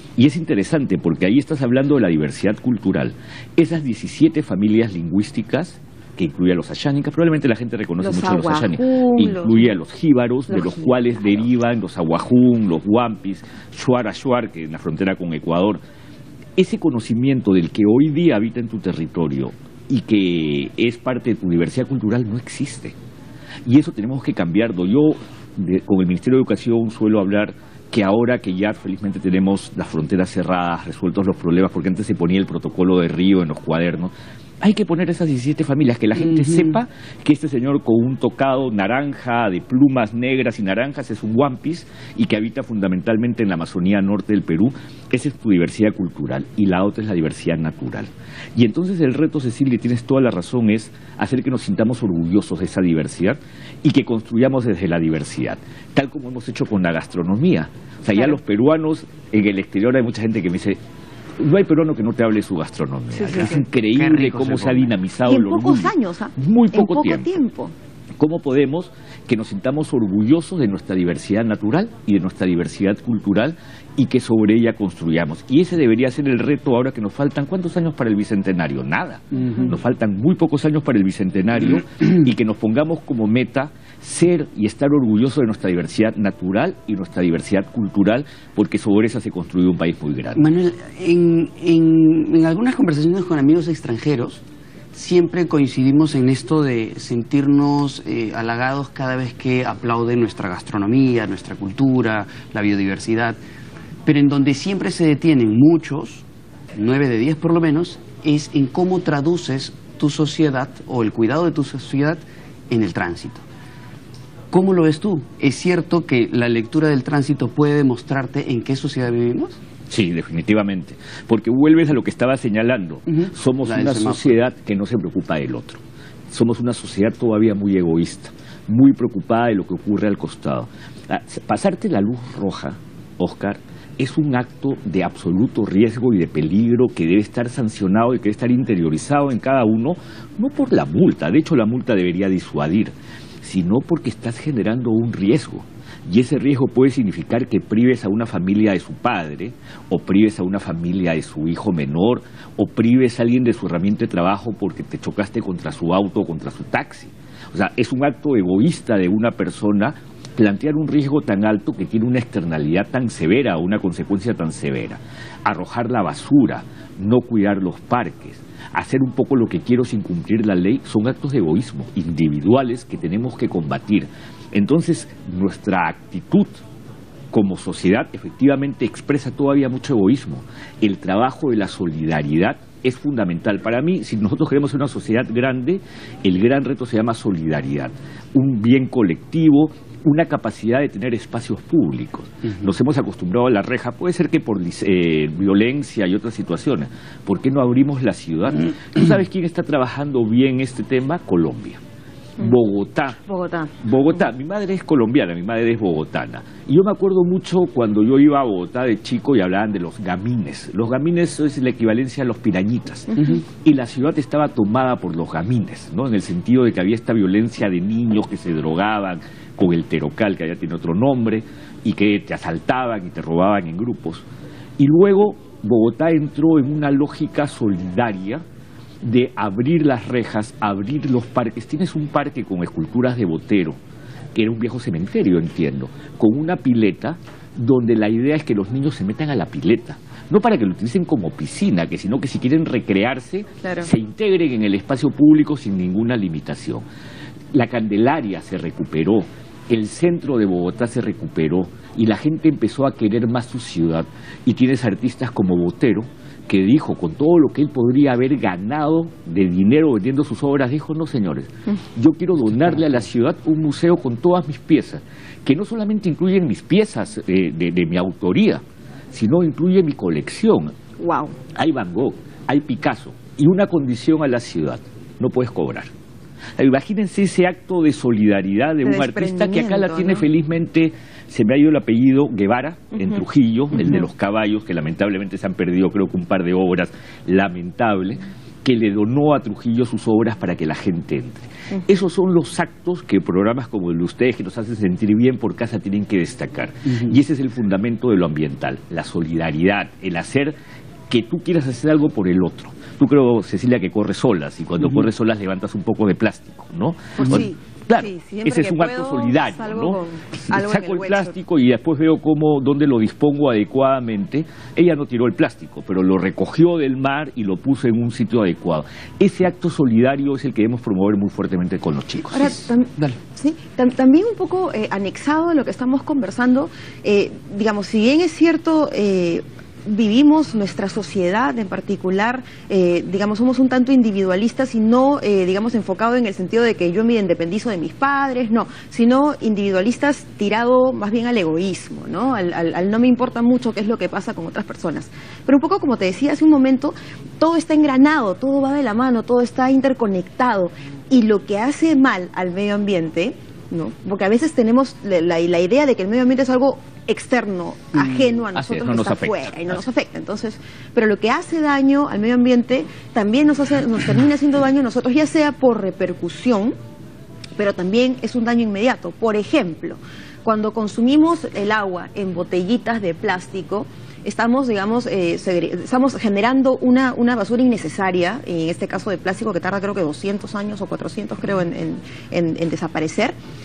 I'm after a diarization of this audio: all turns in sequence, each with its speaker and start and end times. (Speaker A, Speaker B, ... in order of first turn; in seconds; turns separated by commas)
Speaker A: 0.2-15.8, Speaker B: 8.0-9.7, Speaker B: 10.5-11.1, Speaker A: 16.6-22.9, Speaker A: 23.7-60.8, Speaker C: 36.2-36.8, Speaker A: 61.4-67.3, Speaker B: 63.1-63.6, Speaker C: 63.9-64.9, Speaker B: 65.3-67.7, Speaker A: 68.2-90.5, Speaker C: 90.3-103.4, Speaker C: 104.1-113.4, Speaker C: 114.5-119.6, Speaker A: 119.9-176.5, Speaker C: 123.1-124.4, Speaker A: 177.3-201.8, Speaker A: 202.4-203.2, Speaker B: 203.2-203.8, Speaker A: 203.8-224.2, Speaker A: 224.8-228.4, Speaker A: 229.0-233.8, Speaker A: 234.3-246.8, Speaker B: 243.6-243.9, Speaker A: 247.5-270.7, Speaker B: 271.0-271.4, Speaker A: 271.6-275.9, Speaker A: 276.6-300.5, Speaker B: 278.8-280.3, Speaker C: 296.9-297.2, Speaker A: 301.1-322.6, Speaker B: 307.2-311.4, Speaker B: 322.3-366.7, Speaker C: 322.4-323.2, Speaker A: 358.5-359.8, Speaker B: 367.6-383.4